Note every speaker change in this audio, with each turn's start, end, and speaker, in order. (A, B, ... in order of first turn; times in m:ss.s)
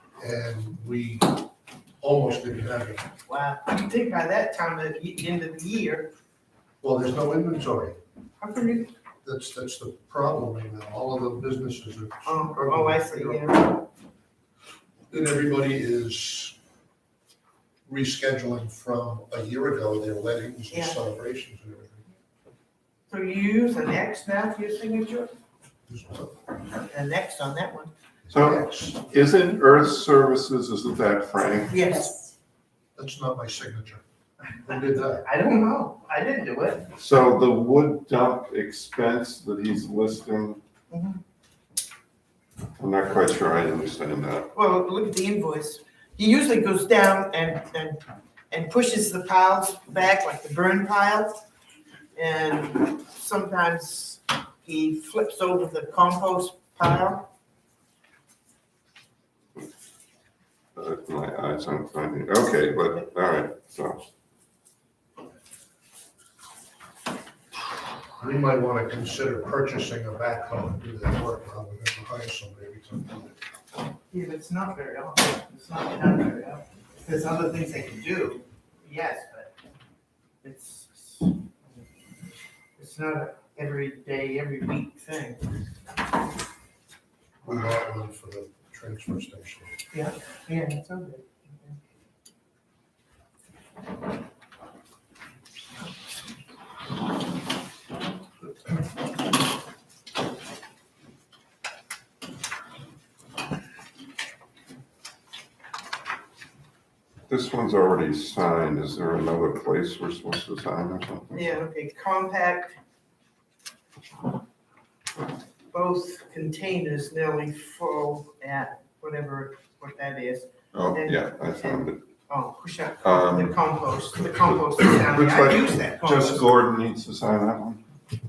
0:00.2-0:01.4 A
0:02.0-0:03.0 A
0:03.3-0:06.1 B
0:06.8-0:08.0 A
0:08.4-0:08.9 B
0:09.2-0:13.5 A
0:12.2-0:13.8 B
0:15.1-0:16.6 A
0:17.9-0:22.0 A
0:20.7-0:21.0 B
0:23.1-0:25.3 B
0:25.9-0:26.4 A
0:26.9-0:27.9 B
0:28.3-0:29.0 A
0:28.3-0:31.8 C
0:31.7-0:32.3 B
0:33.0-0:34.0 A
0:34.6-0:36.9 B
0:34.6-0:35.2 A
0:37.0-0:40.6 C
0:40.9-0:41.2 B
0:42.8-0:44.5 C
0:44.5-0:51.4 B
0:52.2-0:57.2 B
1:00.8-1:04.0 C
1:08.2-1:13.4 A
1:14.1-1:19.5 B
1:20.4-1:21.4 B
1:22.8-1:25.6 B
1:27.4-1:29.7 A
1:29.9-1:31.8 B
1:47.3-1:51.3 C
1:51.3-1:52.8 B
1:55.7-2:06.5 B
2:00.7-2:02.0 C
2:03.0-2:03.6 C
2:04.2-2:07.8 C